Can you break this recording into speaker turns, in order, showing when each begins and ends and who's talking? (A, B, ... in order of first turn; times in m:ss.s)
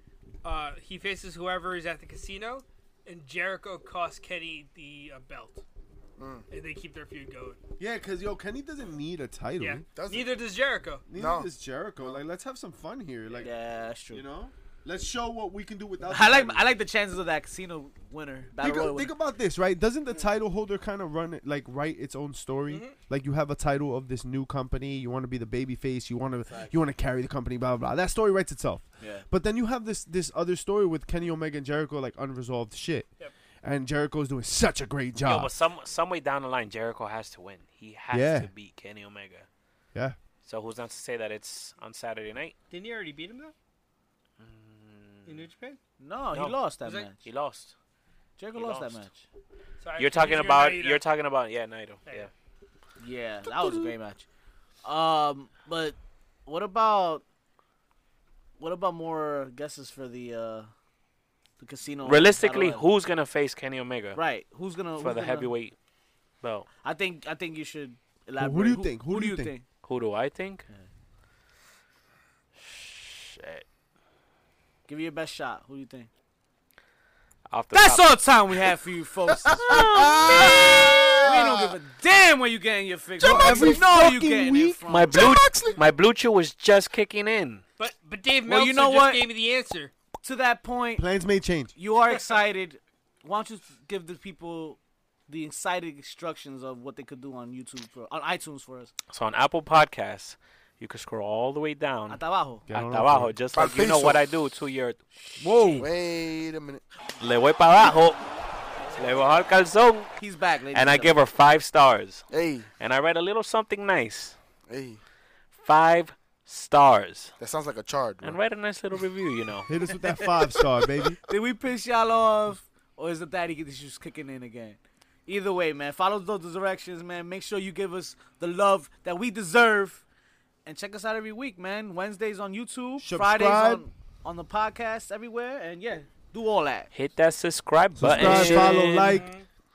0:00.4-0:05.6 A
0:06.2-0:06.5 B
0:06.5-0:07.6 A
0:07.8-0:09.8 C
0:09.6-0:11.1 A
0:10.0-0:10.3 B
0:11.1-0:13.5 C
0:11.2-0:11.5 B
0:13.4-0:14.2 D
0:14.1-0:16.6 C
0:16.0-0:19.1 D
0:18.6-0:33.1 C
0:22.7-0:23.0 A
0:29.0-0:29.3 D
0:33.6-0:35.5 C
0:35.2-0:39.5 E
0:38.1-0:38.5 C
0:40.4-0:42.6 E
0:42.7-0:43.5 A
0:44.4-0:45.4 E
0:45.3-0:45.8 A
0:46.0-0:47.2 D
0:46.3-0:46.6 E
0:46.8-0:47.1 A
0:47.1-0:47.8 E
0:48.4-0:49.2 D
0:48.5-0:49.1 E
0:49.8-0:51.0 A
0:50.0-0:52.3 E
0:53.0-0:54.3 D
0:54.8-0:57.2 D
0:58.6-1:00.7 D
1:01.6-1:02.8 D
1:02.0-1:04.2 E
1:04.2-1:05.5 D
1:05.0-1:05.8 E
1:06.4-1:06.7 E
1:06.8-1:09.6 D
1:08.4-1:09.5 C
1:09.8-1:10.6 E
1:12.6-1:13.6 E
1:14.9-1:16.1 D
1:17.5-1:18.1 E
1:17.7-1:25.2 D
1:19.5-1:21.8 B
1:19.6-1:20.3 E
1:23.2-1:23.9 B
1:23.2-1:24.8 C
1:24.9-1:27.6 E
1:25.1-1:25.8 B
1:27.8-1:29.9 A
1:28.5-1:29.3 D
1:30.2-1:31.1 D
1:31.0-1:31.7 C
1:31.8-1:38.9 D
1:39.1-1:45.0 E
1:42.1-1:42.7 D
1:42.7-1:43.4 C
1:43.5-1:44.2 B
1:45.2-1:45.8 D
1:45.4-1:45.9 C
1:45.8-1:46.8 B
1:47.2-1:48.2 E
1:48.9-1:50.1 E
1:50.2-1:51.2 D
1:50.7-1:52.3 E
1:52.3-1:52.7 B
1:52.8-1:54.4 E
1:54.7-1:55.0 B
1:55.6-1:57.3 E
1:57.4-1:58.4 B
1:58.2-1:59.7 E
1:59.7-2:01.2 C
2:01.2-2:10.0 D
2:10.6-2:16.9 D
2:13.0-2:13.8 C
2:16.9-2:19.2 E
2:18.0-2:19.3 C
2:18.2-2:18.7 D
2:18.4-2:19.4 A